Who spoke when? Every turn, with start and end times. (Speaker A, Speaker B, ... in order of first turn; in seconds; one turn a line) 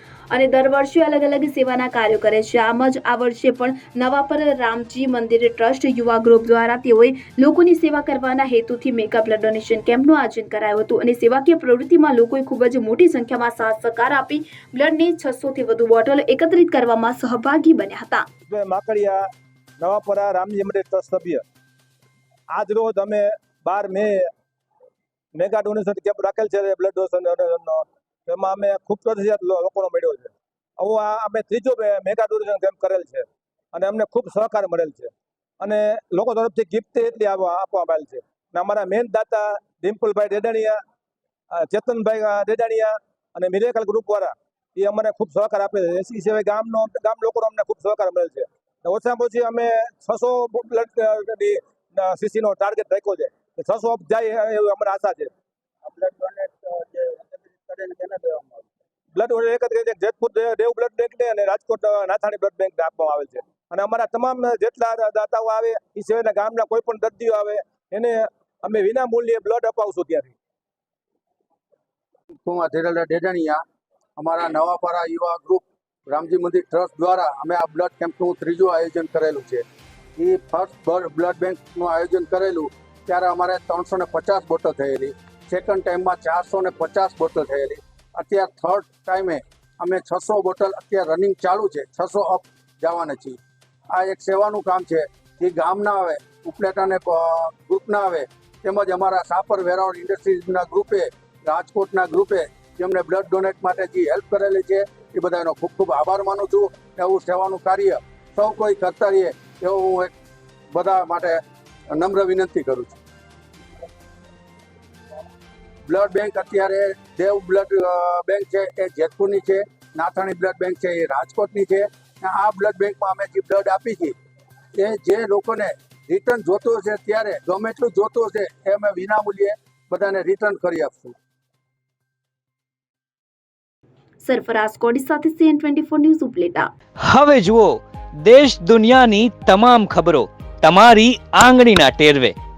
Speaker A: 0.3-18.3
Speaker B: 18.5-19.2
Speaker B: 19.8-21.4
Speaker B: 22.5-24.3
Speaker B: 25.4-40.8
Speaker B: 41.5-55.3
Speaker C: 55.9-58.5
Speaker B: 59.1-70.3
Speaker C: 72.4-73.6
Speaker C: 74.2-79.6
Speaker C: 80.2-93.4
Speaker C: 93.9-110.1
Speaker C: 110.7-111.4
Speaker C: 111.9-113.0
Speaker C: 115.9-124.1
Speaker C: 124.8-131.2
Speaker A: 134.2-136.7
Speaker D: 137.0-142.3